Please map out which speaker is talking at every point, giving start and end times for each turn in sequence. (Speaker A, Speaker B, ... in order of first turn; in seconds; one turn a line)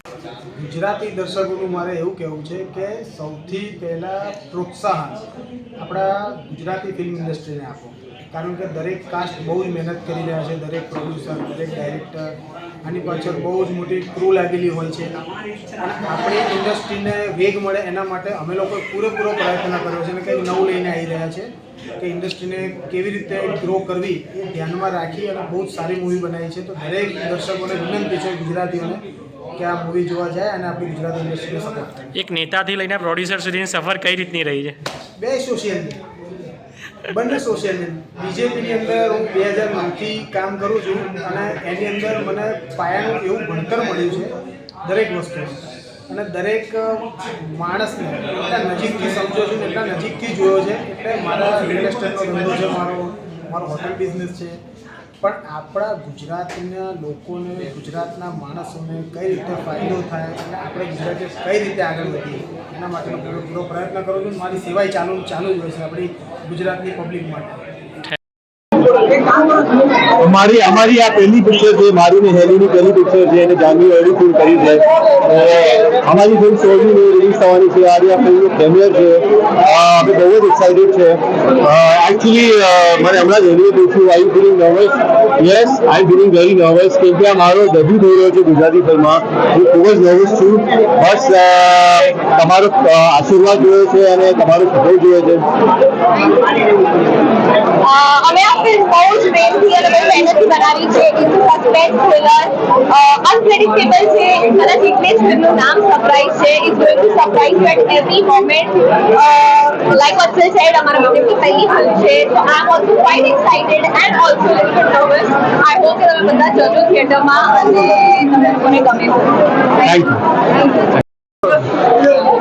Speaker A: 0.6-5.2
Speaker A: 5.8-12.3
Speaker A: 12.8-15.1
Speaker A: 15.8-21.5
Speaker A: 22.0-29.0
Speaker A: 29.6-32.0
Speaker B: 32.1-34.8
Speaker A: 35.2-36.0
Speaker A: 37.1-44.3
Speaker A: 44.8-54.6
Speaker A: 55.2-67.6
Speaker C: 70.2-95.5
Speaker D: 97.8-119.3
Speaker C: 119.9-120.2
Speaker D: 120.6-120.8